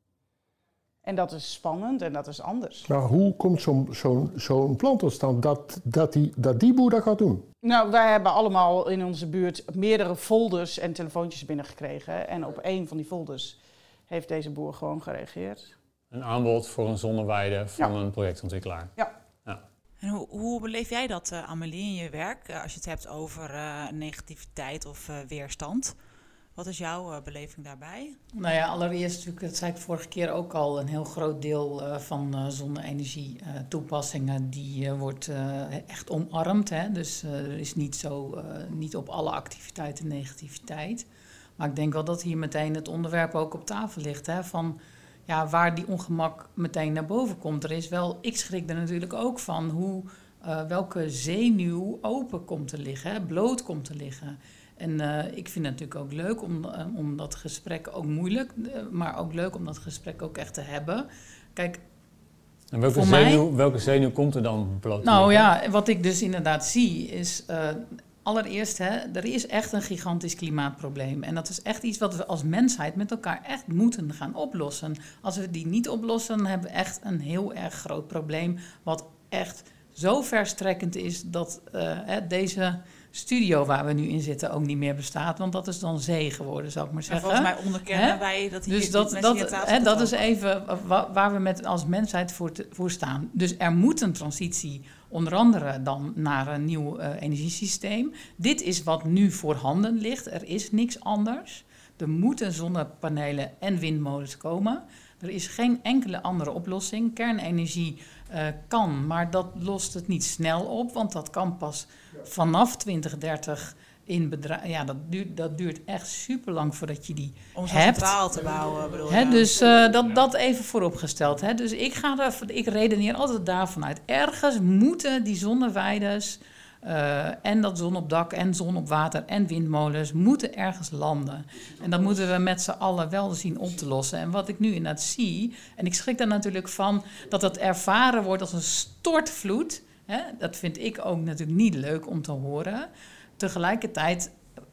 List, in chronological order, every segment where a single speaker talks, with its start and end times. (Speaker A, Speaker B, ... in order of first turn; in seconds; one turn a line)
Speaker A: 1.0-2.9
Speaker B: 2.9-7.5
Speaker A: 7.6-13.6
Speaker A: 14.1-15.7
Speaker C: 16.1-18.9
Speaker D: 20.0-25.9
Speaker D: 26.5-28.2
Speaker E: 28.3-41.0
Speaker E: 41.6-61.8
Speaker C: 62.7-65.5
Speaker E: 62.9-63.5
Speaker E: 65.0-118.2
Speaker D: 87.1-90.2
Speaker D: 117.5-119.6
Speaker E: 119.1-144.3